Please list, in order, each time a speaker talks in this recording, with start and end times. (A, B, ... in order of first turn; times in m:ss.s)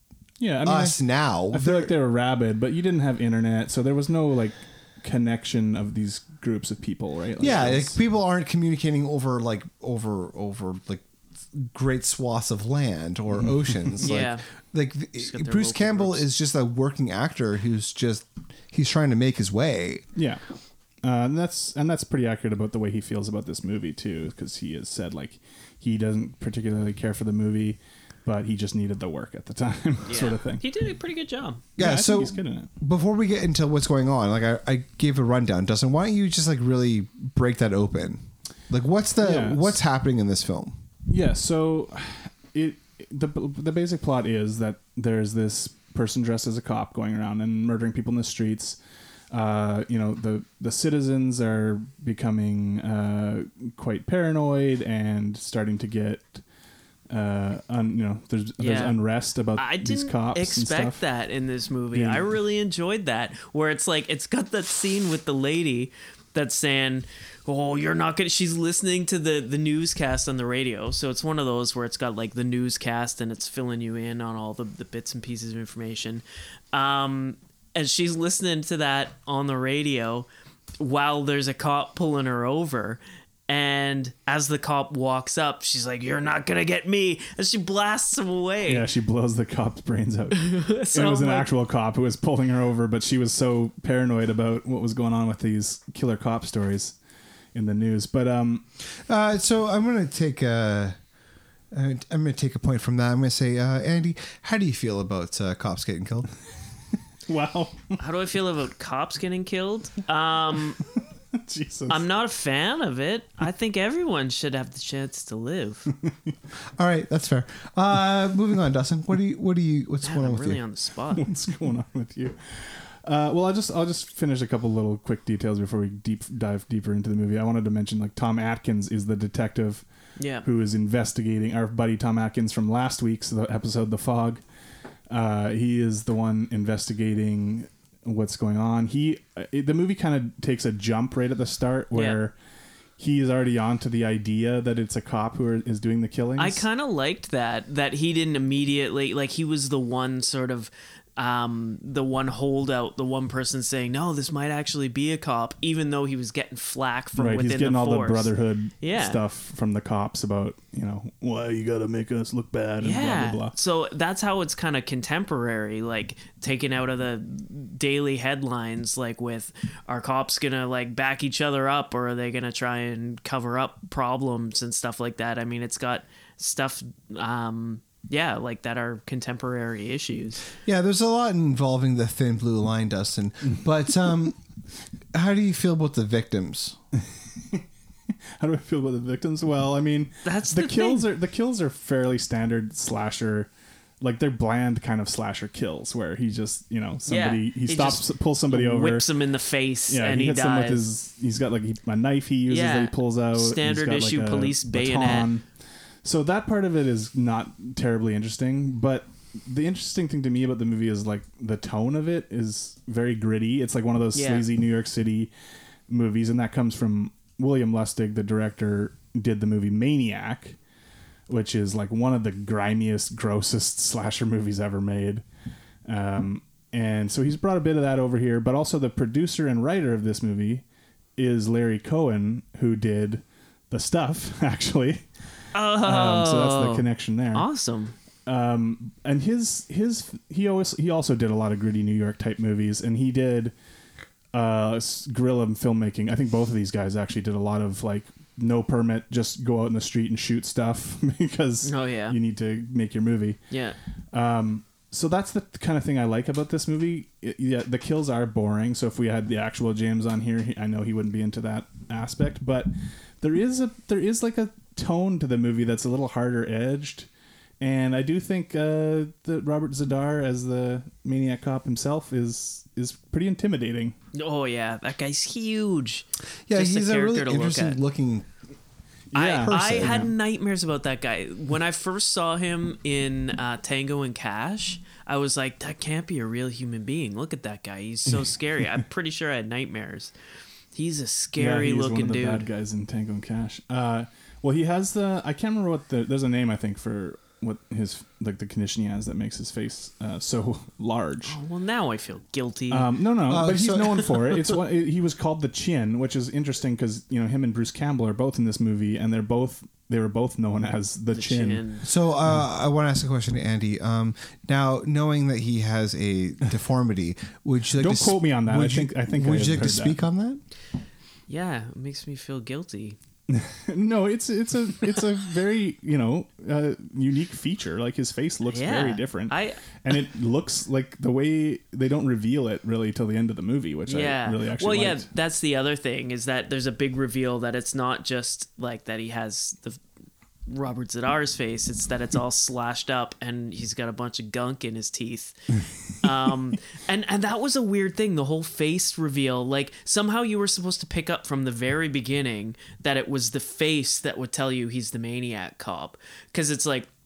0:00.4-0:08.0 A
0:00.6-0:01.9 B
0:07.4-0:20.0 B
0:13.3-0:14.0 A
0:14.0-0:14.4 C
0:15.2-0:16.2 C
0:20.1-0:20.4 A
0:21.0-0:30.6 A
0:30.1-0:31.6 C
0:31.8-0:40.7 B
0:31.8-0:32.7 A
0:39.2-0:39.8 A
0:41.1-0:48.8 A
0:49.3-0:56.4 A
0:57.1-1:01.0 A
0:58.6-0:59.0 C
0:59.6-1:20.3 C
1:01.9-1:02.3 A
1:20.8-1:28.9 C
1:28.7-1:37.0 A
1:30.3-1:31.5 C
1:37.5-1:38.6 A
1:39.0-1:41.0 B
1:41.7-1:46.3 B
1:47.3-1:48.0 A
1:48.0-1:50.8 C
1:51.3-1:52.0 A
1:51.9-1:55.9 C
1:56.0-1:56.3 A
1:56.8-2:00.6 B
2:00.0-2:01.3 C
2:01.1-2:09.8 A
2:10.2-2:10.4 C
2:10.4-2:14.4 A
2:15.1-2:22.3 A
2:21.9-2:22.2 C
2:23.0-2:26.6 A
2:26.4-2:39.2 C
2:37.2-2:43.5 A
2:42.8-3:00.5 C
3:00.6-3:04.4 B
3:05.1-3:06.8 B
3:08.4-3:13.5 A
3:10.2-3:11.1 C
3:14.0-3:19.1 A
3:17.0-3:20.8 C
3:19.9-3:25.4 A
3:22.5-3:25.3 C
3:26.0-3:35.3 A
3:34.1-3:34.4 C
3:35.9-3:40.6 A
3:41.3-3:45.2 A
3:45.8-3:50.6 A
3:51.2-3:55.0 A
3:55.5-3:57.9 C
3:55.8-3:57.4 A
3:58.2-4:03.5 A
4:04.3-4:13.4 A
4:11.6-4:12.2 C
4:13.5-4:13.8 C
4:14.1-4:27.1 A
4:27.6-4:33.9 A
4:34.1-4:37.8 C
4:36.5-4:38.3 B
4:39.1-4:40.1 A
4:39.1-4:50.1 C
4:39.4-4:40.1 B
4:48.1-4:48.3 A
4:50.7-4:52.5 C
4:51.4-5:01.4 A
5:01.2-5:02.9 C
5:02.7-5:11.6 A
5:03.3-5:04.6 B
5:11.1-5:11.9 C
5:11.8-5:20.4 B
5:17.8-5:20.0 A
5:21.3-5:23.0 C
5:23.3-5:35.1 A
5:28.5-5:29.6 C
5:33.9-5:39.8 C
5:40.5-5:45.4 C
5:46.0-5:56.9 C